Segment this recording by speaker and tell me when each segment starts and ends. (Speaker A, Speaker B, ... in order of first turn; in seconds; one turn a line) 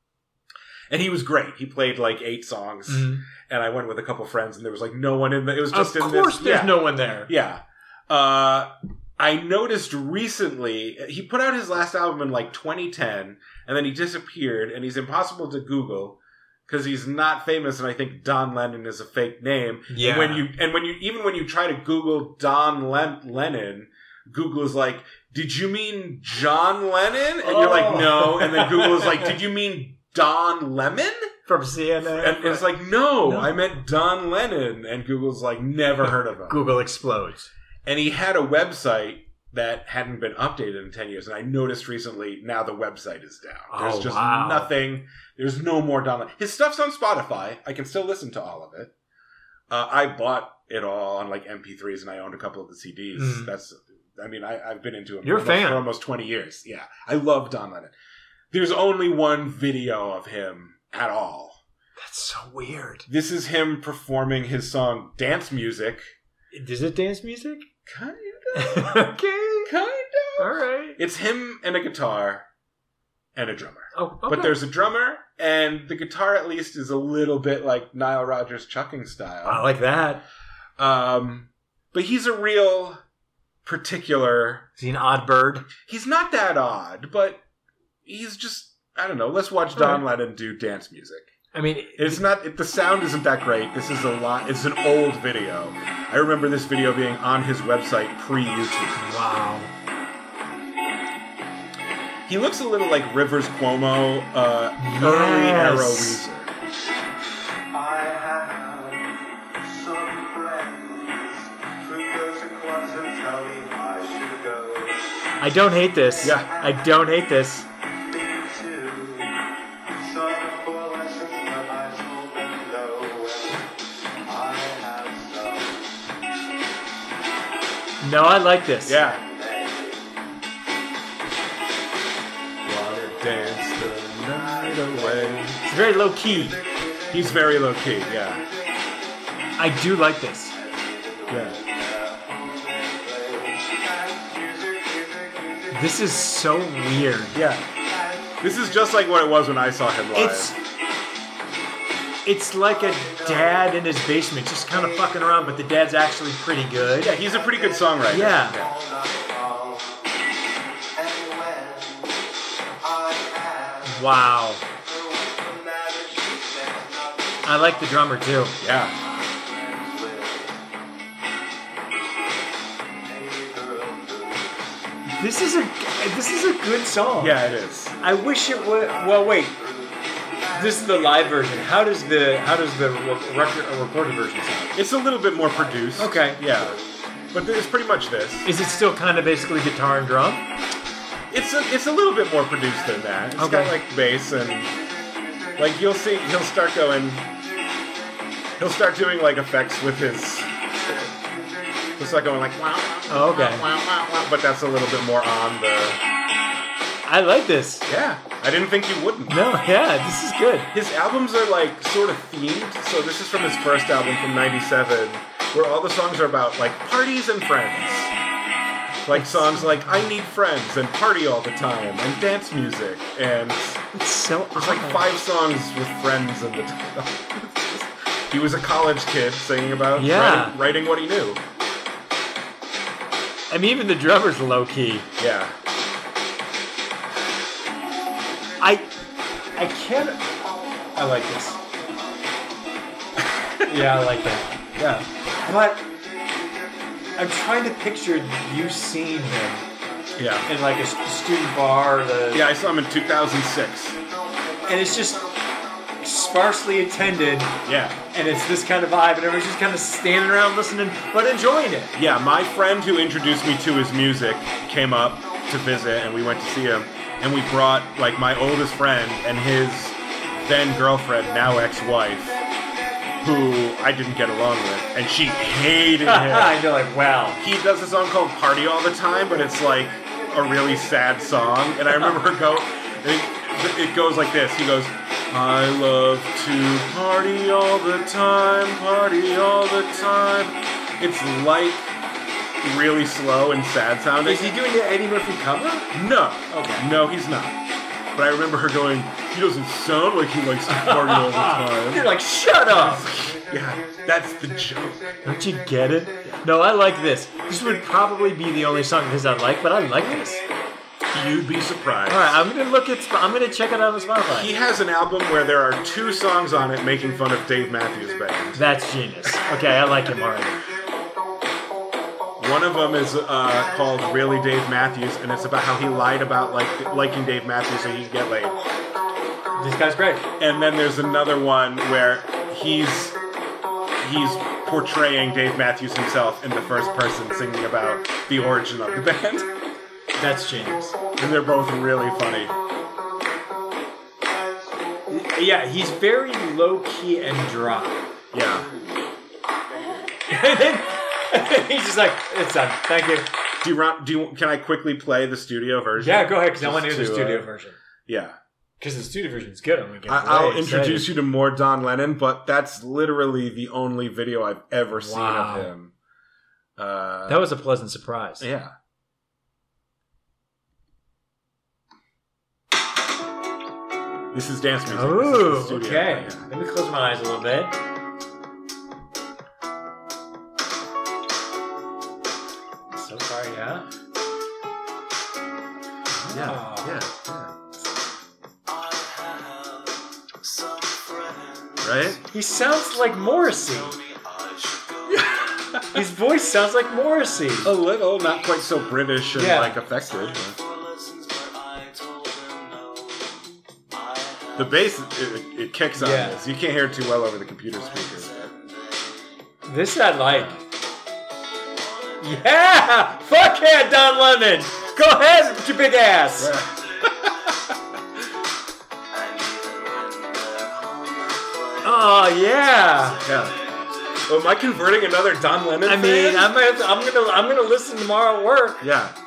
Speaker A: 0.9-31.3
Speaker B: 2.9-3.2
Speaker B: 5.7-7.3
Speaker B: 19.9-20.5
Speaker B: 27.4-29.3
Speaker B: 31.5-32.7
Speaker A: 32.1-36.6
Speaker B: 33.2-33.5
Speaker B: 36.5-37.5
Speaker A: 37.8-48.9
Speaker B: 43.7-44.7
Speaker A: 49.7-57.9
Speaker B: 53.1-53.5
Speaker B: 55.2-55.8
Speaker A: 58.5-61.6
Speaker B: 62.0-63.1
Speaker A: 63.1-66.1
Speaker B: 66.5-67.7
Speaker A: 67.8-69.1
Speaker B: 68.5-69.7
Speaker A: 69.7-72.5
Speaker B: 70.4-71.0
Speaker A: 73.3-79.7
Speaker B: 73.9-74.5
Speaker B: 79.4-80.2
Speaker A: 80.8-83.0
Speaker A: 83.6-84.7
Speaker B: 84.8-85.7
Speaker A: 85.8-87.4
Speaker A: 88.0-91.3
Speaker B: 89.8-90.0
Speaker B: 91.5-92.2
Speaker A: 92.0-99.0
Speaker B: 99.0-99.7
Speaker A: 102.3-106.5
Speaker B: 104.8-106.2
Speaker C: 108.2-108.5
Speaker C: 112.2-114.0
Speaker B: 115.4-117.7
Speaker A: 116.2-116.5
Speaker C: 124.7-125.4
Speaker B: 128.0-129.1
Speaker A: 128.8-129.2
Speaker A: 132.6-135.6
Speaker B: 135.6-136.6
Speaker A: 137.1-138.4
Speaker B: 139.6-140.6
Speaker A: 141.3-141.6
Speaker B: 145.7-147.4
Speaker A: 147.3-147.6
Speaker A: 148.4-150.5
Speaker B: 150.1-150.6
Speaker B: 152.2-157.2
Speaker A: 156.9-158.8
Speaker B: 158.1-158.6
Speaker C: 158.9-159.8
Speaker C: 161.0-161.9
Speaker C: 163.0-163.7
Speaker B: 163.8-164.6
Speaker C: 165.7-167.0
Speaker B: 167.4-168.6
Speaker A: 168.6-169.0
Speaker C: 169.7-170.4
Speaker C: 173.2-174.1
Speaker B: 175.1-177.4
Speaker A: 177.2-178.0
Speaker B: 178.0-179.6
Speaker B: 180.5-184.7
Speaker A: 184.7-188.5
Speaker B: 185.9-186.5
Speaker B: 188.4-190.5
Speaker A: 191.3-194.7
Speaker B: 193.4-193.8
Speaker A: 195.6-197.3
Speaker A: 198.6-201.1
Speaker A: 202.0-206.0
Speaker B: 203.1-203.7
Speaker B: 207.1-207.8
Speaker A: 207.9-209.4
Speaker B: 209.3-210.7
Speaker A: 210.7-218.1
Speaker A: 219.1-223.8
Speaker B: 219.1-220.0
Speaker B: 223.9-225.1
Speaker A: 224.5-231.4
Speaker B: 229.9-230.6
Speaker B: 233.5-235.1
Speaker A: 235.2-235.5
Speaker B: 238.6-238.9
Speaker B: 239.6-240.3
Speaker B: 240.9-241.6
Speaker A: 243.4-243.7
Speaker B: 243.7-244.6
Speaker A: 244.8-245.1
Speaker B: 245.4-245.9
Speaker B: 247.2-249.7
Speaker A: 250.2-250.5
Speaker B: 250.4-252.5
Speaker A: 252.3-254.0
Speaker B: 254.7-255.3
Speaker B: 256.0-257.6
Speaker A: 257.6-258.0
Speaker B: 258.1-261.9
Speaker A: 261.9-272.4
Speaker A: 273.2-276.6
Speaker B: 276.0-277.4
Speaker A: 277.4-291.9
Speaker A: 292.6-294.6
Speaker B: 294.2-295.9
Speaker A: 295.9-297.6
Speaker B: 296.5-296.9
Speaker A: 298.1-302.1
Speaker B: 300.7-303.1
Speaker A: 302.7-305.2
Speaker B: 305.2-310.4
Speaker A: 311.1-312.4
Speaker B: 312.1-314.5
Speaker A: 314.3-318.6
Speaker B: 318.5-320.6
Speaker A: 322.4-328.6
Speaker B: 329.6-330.3
Speaker A: 330.4-333.1
Speaker A: 334.0-339.5
Speaker B: 340.1-341.0
Speaker A: 341.2-342.5
Speaker B: 345.1-348.1
Speaker A: 348.3-348.7
Speaker B: 350.3-353.3
Speaker A: 353.6-357.5
Speaker B: 356.0-357.8
Speaker A: 358.1-358.4
Speaker B: 358.8-361.1
Speaker A: 360.1-365.9
Speaker B: 364.9-365.7
Speaker A: 366.8-367.4
Speaker B: 367.3-368.5
Speaker A: 368.4-368.7
Speaker A: 374.3-376.4
Speaker B: 374.9-377.8
Speaker B: 382.9-383.9
Speaker A: 386.2-387.5
Speaker B: 386.3-387.1
Speaker A: 391.8-392.2
Speaker B: 392.2-394.0
Speaker A: 395.1-396.0
Speaker B: 395.8-397.7
Speaker A: 397.6-400.6
Speaker B: 399.3-399.8
Speaker C: 401.9-402.6
Speaker A: 404.5-408.5
Speaker B: 405.9-406.4
Speaker B: 409.6-410.6
Speaker B: 412.2-416.6
Speaker A: 416.4-417.7
Speaker B: 421.8-423.2
Speaker A: 423.2-423.6
Speaker A: 424.2-426.5
Speaker B: 425.8-428.9
Speaker A: 428.8-429.1